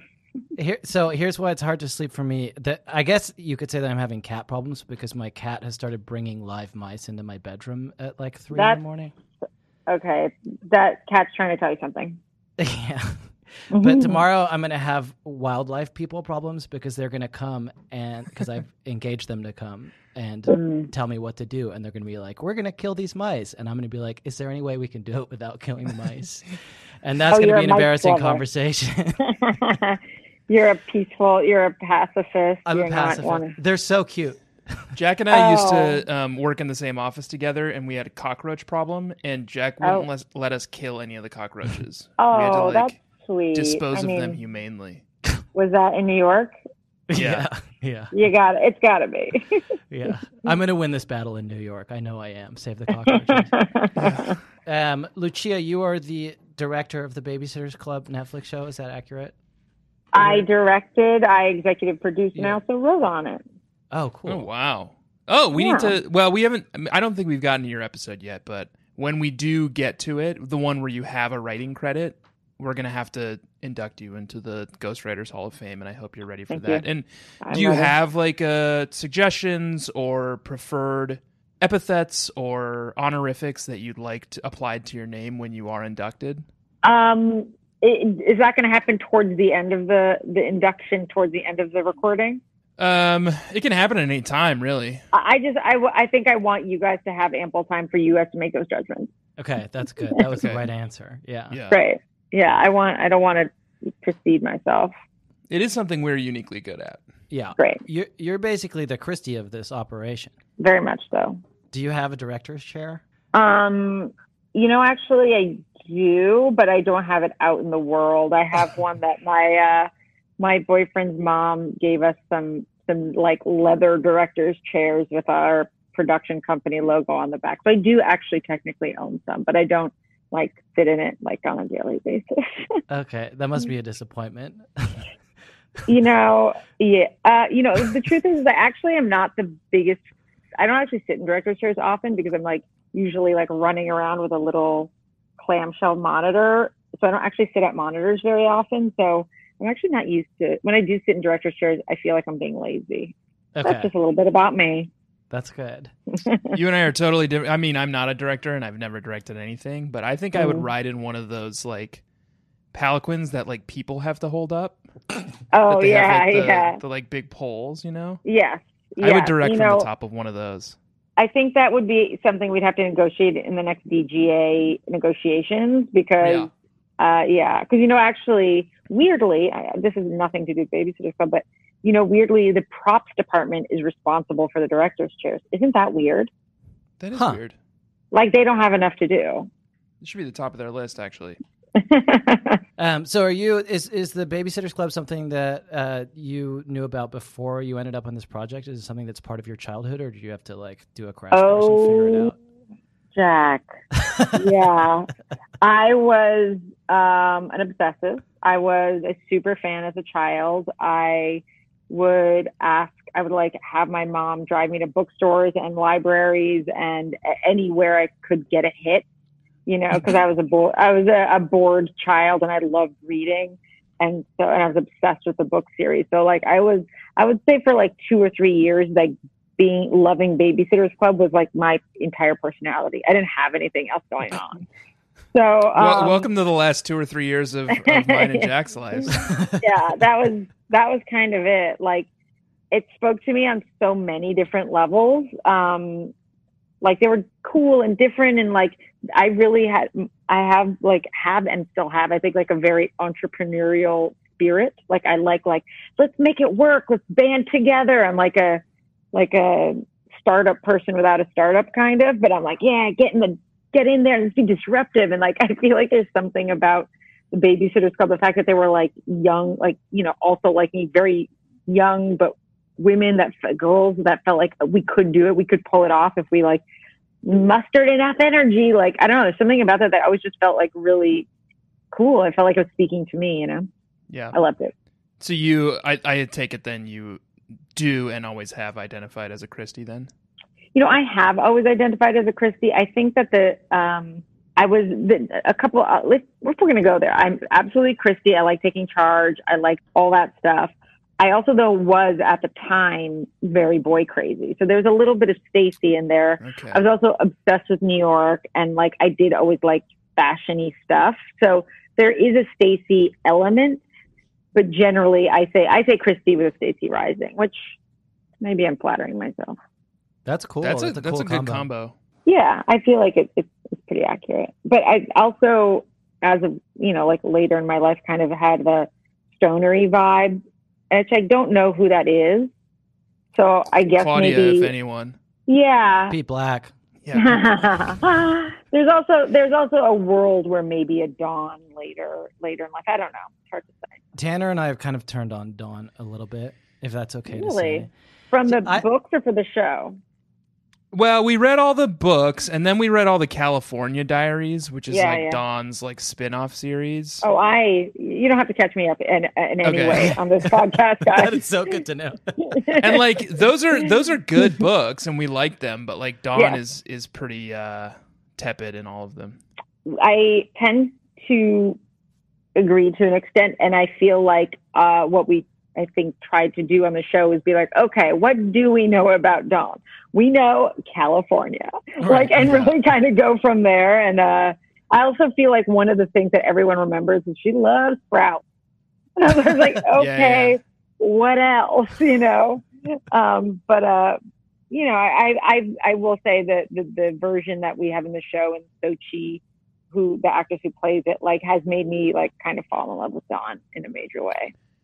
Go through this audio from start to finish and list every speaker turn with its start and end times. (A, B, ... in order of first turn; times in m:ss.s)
0:00.6-0:09.1 A
0:08.5-0:08.8 B
0:09.9-0:12.2 B
0:12.6-0:26.5 A
0:13.7-0:14.2 B
0:20.5-0:20.9 B
0:27.0-0:29.2 A
0:27.3-0:28.4 B
0:29.3-0:33.6 B
0:32.6-0:34.4 A
0:34.9-0:42.9 C
0:35.3-0:36.0 B
0:39.8-0:40.1 B
0:42.2-0:44.4 B
0:43.5-0:45.0 C
0:45.5-0:46.5 B
0:47.1-0:48.1 A
0:47.1-0:47.5 C
0:48.1-0:49.4 B
0:49.9-0:53.5 A
0:53.1-0:54.3 B
0:54.0-0:54.3 C
0:54.6-0:59.3 A
1:00.1-1:03.4 B
1:00.2-1:00.4 A
1:02.3-1:02.6 A
1:03.9-1:04.4 A
1:04.2-1:26.4 C
1:05.5-1:06.0 B
1:16.5-1:16.8 B
1:17.4-1:17.9 B
1:26.8-1:32.4 B
1:32.8-1:35.0 C
1:35.1-1:39.1 B
1:39.4-1:41.6 A
1:40.3-1:40.7 C
1:41.5-1:41.8 C
1:41.7-1:44.9 B
1:45.5-1:47.0 C
1:47.3-1:50.3 A
1:50.6-1:51.4 B
1:51.7-1:53.0 A
1:53.3-2:12.8 B
2:12.9-2:15.0 A
2:15.9-2:20.0 B
2:20.6-2:34.9 B
2:33.6-2:33.9 A
2:35.3-2:35.9 A
2:36.2-2:36.5 B
2:36.5-2:42.0 C
2:40.3-2:40.7 B
2:42.7-2:44.8 C
2:45.5-2:46.8 B
2:45.6-2:48.2 C
2:48.2-2:49.9 B
2:49.0-2:50.8 C
2:51.2-3:06.3 B
2:56.2-2:56.5 C
3:07.0-3:07.6 C
3:07.1-3:07.4 A
3:08.1-3:09.5 B
3:10.0-3:11.4 C
3:11.8-3:12.6 B
3:12.8-3:22.3 A
3:21.3-3:22.3 B
3:23.1-3:23.7 B
3:24.0-3:24.5 A
3:24.4-3:25.1 B
3:25.6-3:39.0 B
3:39.6-3:54.6 B
3:55.3-3:56.3 B
3:55.7-3:59.3 C
3:57.7-4:02.1 B
3:59.2-3:59.6 A
4:02.7-4:06.1 B
4:06.8-4:36.6 B
4:37.2-4:41.3 B
4:41.9-4:43.7 B
4:44.1-4:44.4 C
4:44.3-4:44.7 B
4:45.2-4:47.2 C
4:47.7-4:50.1 C
4:50.7-5:13.8 B
5:06.4-5:06.8 C
5:14.5-5:17.7 B
5:18.4-5:19.6 B
5:20.2-5:21.7 A
5:20.6-5:22.0 C
5:22.2-5:32.5 B
5:33.3-5:34.7 B
5:33.9-5:35.2 C
5:35.5-5:36.1 B
5:36.1-5:36.7 A
5:37.0-5:37.4 C
5:37.1-5:44.0 B
5:44.2-5:47.9 A
5:47.3-5:50.0 B
5:48.4-5:48.9 A
5:50.9-5:57.2 C
5:54.9-5:55.4 B
5:57.2-6:01.4 B
5:59.6-6:00.1 C
5:59.9-6:02.4 A
6:02.4-6:03.1 B
6:02.8-6:09.4 C
6:06.3-6:06.6 B
6:09.9-6:11.8 B
6:12.6-6:28.4 B
6:22.0-6:22.6 A
6:22.4-6:22.7 C
6:29.2-6:34.2 B
6:29.9-6:30.6 C
6:34.7-6:44.5 B